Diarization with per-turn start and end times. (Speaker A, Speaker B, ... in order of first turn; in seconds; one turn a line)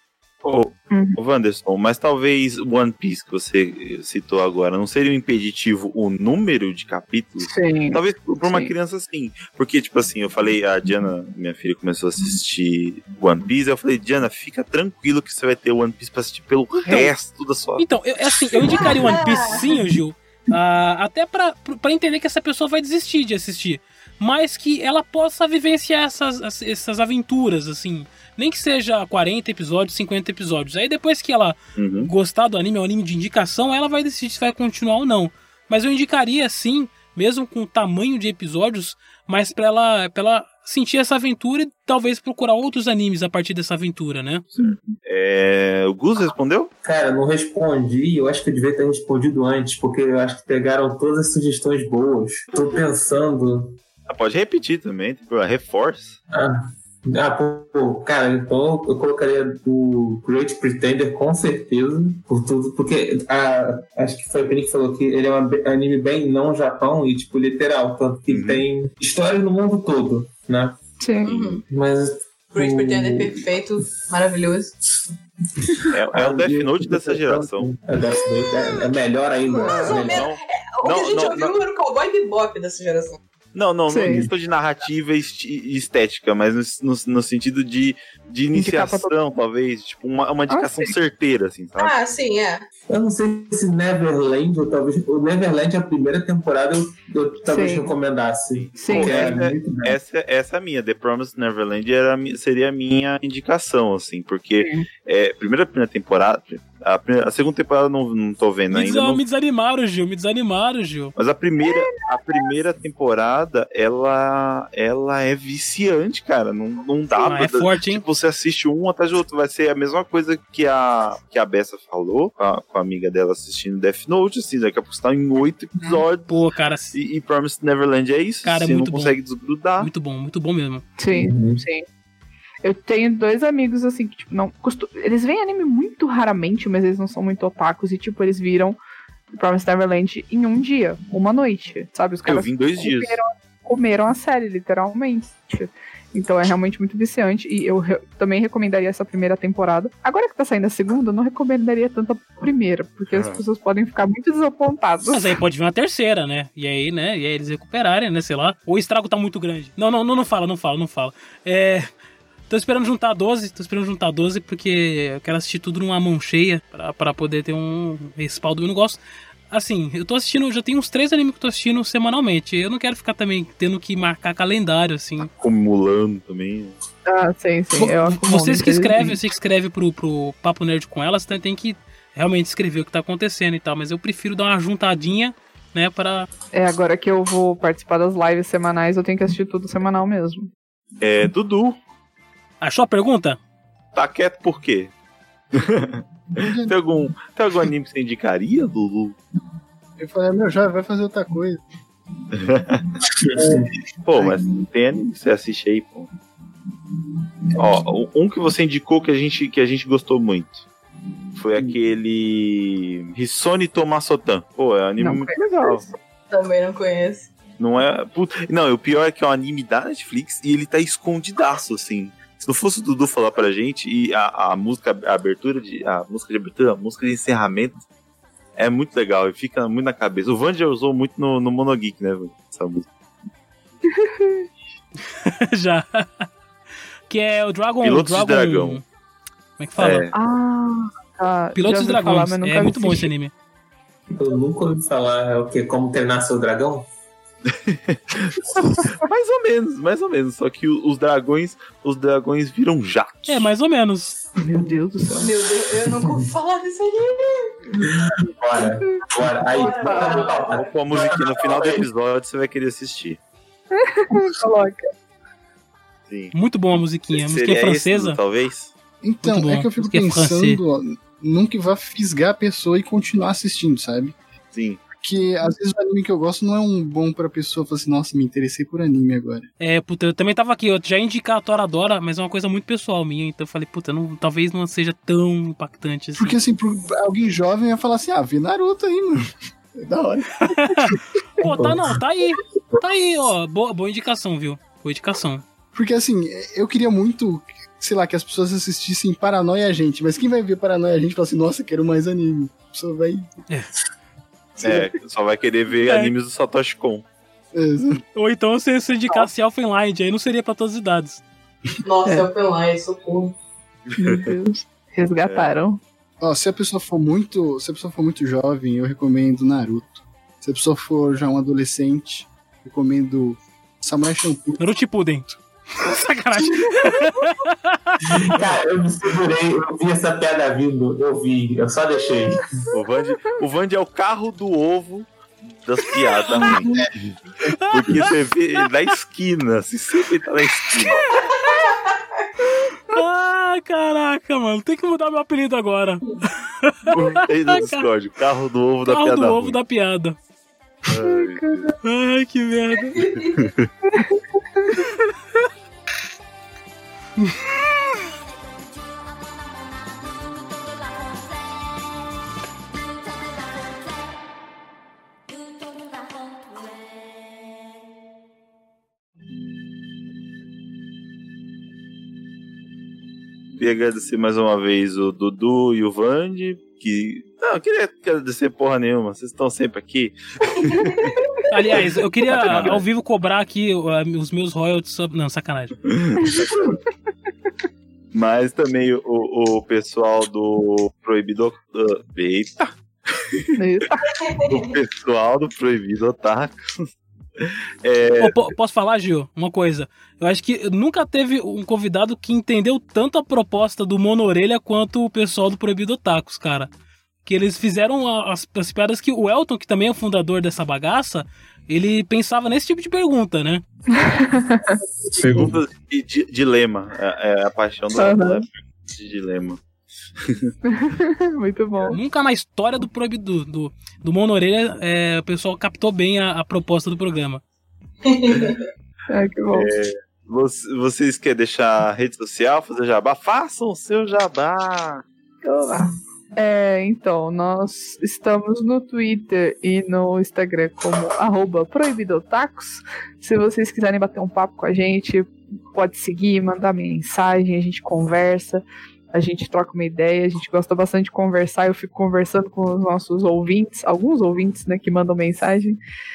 Speaker A: 0.4-17.9
Speaker B: 0.9-1.2
Speaker B: 7.4-8.7
Speaker C: 16.9-17.1
Speaker C: 17.8-44.5
Speaker A: 18.8-19.2
Speaker D: 19.1-19.7
Speaker A: 31.8-32.1
Speaker A: 44.5-46.7
Speaker E: 46.8-53.8
Speaker A: 54.1-56.2
Speaker E: 56.3-70.8
Speaker A: 68.3-68.6
Speaker B: 71.0-71.3
Speaker D: 71.2-71.6
Speaker E: 71.6-73.5
Speaker D: 72.5-74.8
Speaker E: 75.8-80.3
Speaker A: 75.9-77.7
Speaker B: 79.5-80.0
Speaker D: 79.6-83.2
Speaker A: 80.0-81.6
Speaker A: 83.5-92.0
Speaker B: 83.9-84.3
Speaker B: 88.5-89.1
Speaker B: 90.5-91.0
Speaker D: 91.8-92.7
Speaker E: 92.9-100.0
Speaker B: 97.5-97.9
Speaker B: 98.8-99.2
Speaker A: 98.9-109.2
Speaker B: 104.6-104.9
Speaker C: 108.7-111.2
Speaker A: 111.2-126.3
Speaker B: 111.6-112.4
Speaker C: 117.2-118.0
Speaker C: 126.3-127.0
Speaker A: 126.9-129.9
Speaker C: 128.4-129.2
Speaker C: 129.8-130.8
Speaker B: 131.0-131.8
Speaker E: 131.1-131.6
Speaker B: 132.6-138.8
Speaker B: 139.3-155.3
Speaker A: 142.3-143.2
Speaker A: 153.1-153.4
Speaker C: 155.1-161.9
Speaker C: 162.5-169.0
Speaker C: 169.5-175.3
Speaker A: 175.2-176.8
Speaker B: 177.1-179.2
Speaker C: 177.8-186.3
Speaker B: 186.5-190.5
Speaker A: 191.0-191.8
Speaker C: 192.6-193.4
Speaker A: 193.9-194.9
Speaker A: 195.5-199.2
Speaker F: 196.4-196.8
Speaker F: 200.0-201.6
Speaker A: 202.3-203.0
Speaker E: 203.4-203.7
Speaker A: 204.0-206.1
Speaker A: 207.6-210.7
Speaker A: 211.3-215.8
Speaker B: 215.0-215.9
Speaker D: 216.3-217.3
Speaker A: 217.6-227.8
Speaker A: 228.6-232.9
Speaker B: 233.9-234.5
Speaker C: 235.2-236.3
Speaker C: 237.1-238.8
Speaker A: 237.8-238.8
Speaker C: 239.6-240.0
Speaker A: 239.8-240.1
Speaker B: 240.1-243.1
Speaker C: 241.6-243.3
Speaker E: 244.1-246.9
Speaker A: 247.5-253.5
Speaker C: 253.3-254.2
Speaker B: 254.4-255.3
Speaker D: 255.2-257.6
Speaker E: 255.9-256.3
Speaker E: 257.8-261.9
Speaker A: 259.2-263.2
Speaker D: 259.5-260.6
Speaker B: 259.8-260.2
Speaker B: 263.7-264.9
Speaker A: 266.1-266.3
Speaker C: 266.3-268.2
Speaker A: 267.1-268.7
Speaker F: 269.0-274.2
Speaker C: 269.2-270.6
Speaker A: 274.5-274.8
Speaker F: 275.0-279.5
Speaker C: 279.6-286.4
Speaker F: 286.2-291.5
Speaker C: 290.5-295.4
Speaker F: 295.7-303.3
Speaker A: 304.6-307.1
Speaker C: 305.8-306.1
Speaker F: 307.5-308.0
Speaker C: 308.1-311.2
Speaker D: 311.9-313.4
Speaker A: 313.9-314.3
Speaker B: 314.0-315.8
Speaker A: 315.2-315.5
Speaker F: 316.2-324.6
Speaker C: 324.6-328.3
Speaker E: 328.1-332.6
Speaker A: 332.7-341.3
Speaker C: 336.3-336.6
Speaker C: 337.4-338.1
Speaker D: 341.3-342.3
Speaker C: 342.5-347.9
Speaker A: 346.9-349.6
Speaker C: 348.9-350.2
Speaker A: 350.9-351.7
Speaker B: 351.0-351.8
Speaker C: 351.8-353.1
Speaker D: 352.9-353.5
Speaker A: 353.2-353.7
Speaker B: 353.9-354.8
Speaker C: 357.2-357.6
Speaker A: 373.6-381.2
Speaker D: 380.6-381.6
Speaker C: 381.5-385.8
Speaker A: 381.7-382.8
Speaker A: 385.9-386.8
Speaker B: 386.2-386.5
Speaker A: 388.1-393.6
Speaker B: 393.6-394.2
Speaker D: 394.2-394.6
Speaker A: 394.4-396.9
Speaker A: 397.4-398.4
Speaker C: 398.2-406.7
Speaker C: 407.3-413.6
Speaker B: 413.9-414.8
Speaker E: 415.1-415.6
Speaker A: 415.2-419.6
Speaker B: 417.9-418.5
Speaker A: 420.2-420.5
Speaker B: 420.6-422.0
Speaker C: 421.9-427.4
Speaker D: 428.0-428.6
Speaker B: 429.1-429.7
Speaker A: 429.5-435.0
Speaker B: 435.4-455.8